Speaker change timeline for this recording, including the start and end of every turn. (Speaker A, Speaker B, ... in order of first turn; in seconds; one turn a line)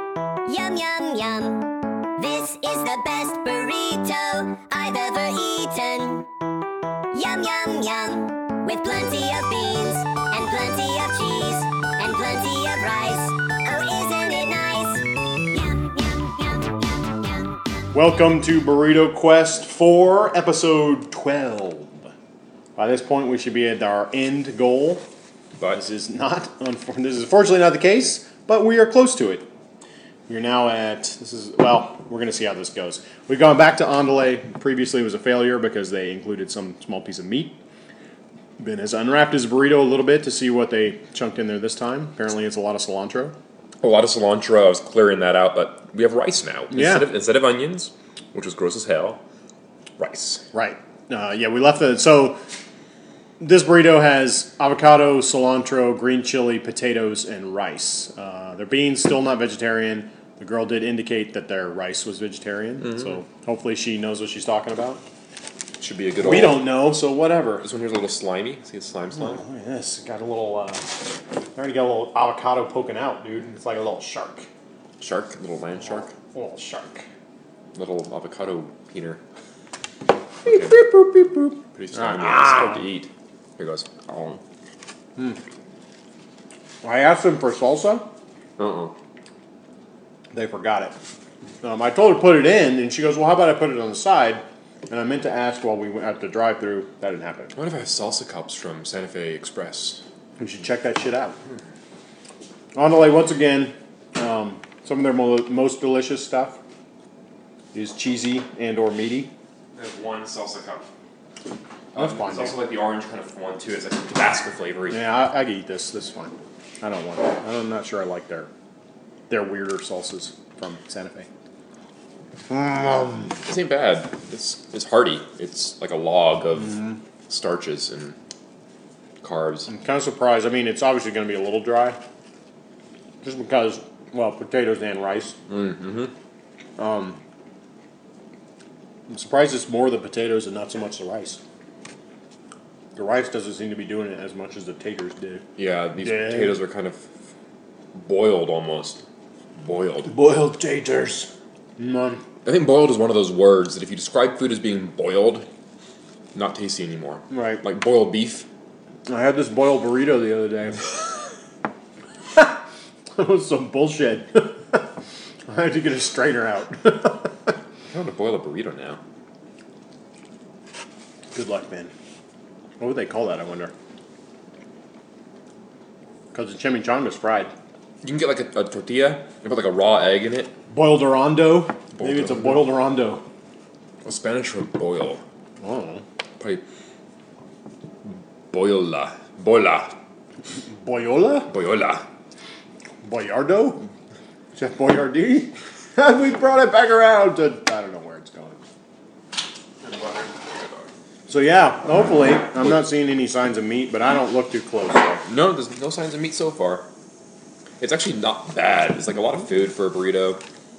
Speaker A: 0.4-6.3
Speaker A: 7.1-17.5
Speaker B: 17.9-22.1
Speaker B: 22.8-25.0
Speaker B: 25.7-29.5
Speaker B: 30.3-37.6
Speaker B: 38.6-43.3
Speaker C: 43.8-49.2
Speaker B: 46.7-47.1
Speaker C: 50.0-50.4
Speaker B: 50.5-52.4
Speaker B: 53.4-65.0
Speaker C: 65.8-66.8
Speaker B: 66.2-67.7
Speaker C: 67.6-69.4
Speaker B: 69.2-71.0
Speaker B: 71.5-74.5
Speaker C: 75.0-76.1
Speaker B: 76.3-77.0
Speaker C: 77.7-79.2
Speaker C: 80.4-80.8
Speaker B: 80.4-82.8
Speaker C: 81.7-84.4
Speaker B: 86.8-88.1
Speaker C: 88.6-88.9
Speaker B: 90.3-90.9
Speaker B: 91.6-97.5
Speaker C: 97.5-100.0
Speaker B: 100.4-101.4
Speaker B: 102.7-106.6
Speaker B: 107.7-109.3
Speaker C: 109.7-110.8
Speaker C: 111.9-115.0
Speaker B: 112.0-112.6
Speaker B: 114.9-118.5
Speaker B: 119.3-121.3
Speaker B: 122.5-123.3
Speaker C: 123.5-128.1
Speaker C: 129.2-129.7
Speaker B: 129.7-132.0
Speaker B: 133.2-135.3
Speaker C: 135.5-136.1
Speaker B: 136.8-137.2
Speaker B: 139.1-141.4
Speaker B: 142.9-145.4
Speaker C: 145.6-147.0
Speaker B: 146.0-146.5
Speaker C: 147.9-149.0
Speaker C: 149.6-150.1
Speaker B: 150.1-152.2
Speaker C: 152.4-155.4
Speaker C: 156.3-158.4
Speaker B: 157.3-157.6
Speaker B: 159.1-160.9
Speaker B: 163.2-164.8
Speaker B: 165.5-167.3
Speaker C: 167.9-169.0
Speaker B: 171.3-171.9
Speaker B: 172.8-173.7
Speaker B: 176.3-177.5
Speaker C: 178.0-180.5
Speaker B: 180.7-183.2
Speaker C: 181.9-182.6
Speaker C: 184.0-185.2
Speaker B: 185.6-186.0
Speaker C: 188.0-189.9
Speaker B: 190.7-191.5
Speaker C: 191.5-192.0
Speaker B: 193.0-193.8
Speaker B: 194.5-198.6
Speaker C: 199.8-200.9
Speaker B: 201.3-205.2
Speaker C: 205.2-206.8
Speaker C: 207.8-210.4